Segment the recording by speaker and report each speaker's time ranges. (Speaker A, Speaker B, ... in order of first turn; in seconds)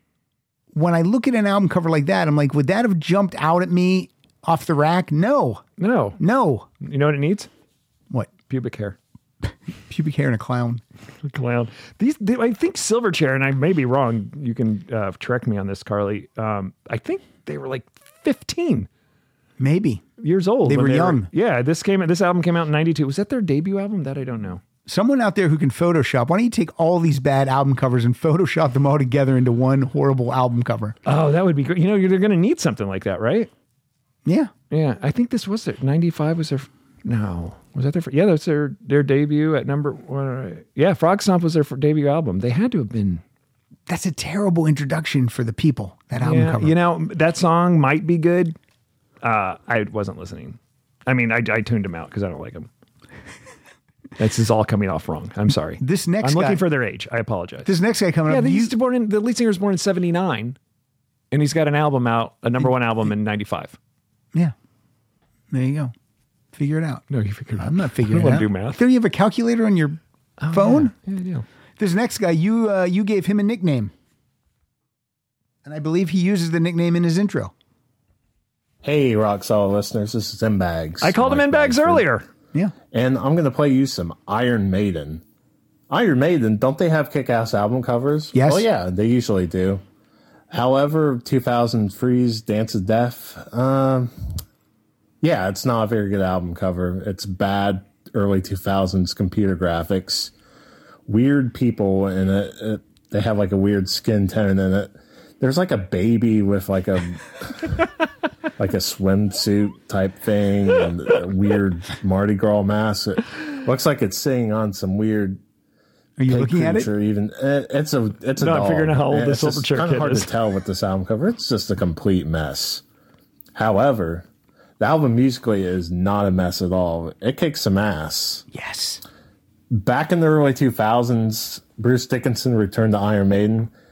Speaker A: 0.7-5.6, 6.2-6.7, 9.9-10.8, 19.6-20.0, 20.6-21.3, 24.9-30.9, 34.2-34.5, 43.9-46.7, 55.8-56.6, 57.6-58.7, 65.5-65.9, 66.5-67.0, 67.6-70.0, 70.5-70.9, 71.8-73.9, 75.6-77.5, 88.3-88.7, 116.2-116.9, 128.5-129.0
Speaker B: 5.8-6.2, 6.8-7.5, 8.5-8.9, 11.2-18.9, 20.2-24.6, 31.1-33.5, 34.7-43.2, 46.2-48.5, 49.2-52.7, 54.2-57.7, 58.3-60.5, 61.3-63.7, 67.1-68.8, 70.4-71.4, 81.0-82.2, 118.4-120.3
Speaker C: 78.8-82.0, 82.9-85.2, 85.9-89.8, 90.5-94.2, 95.2-100.3, 101.0-107.3, 108.6-115.4, 116.3-122.8, 123.5-124.2, 124.8-128.4, 129.7-133.7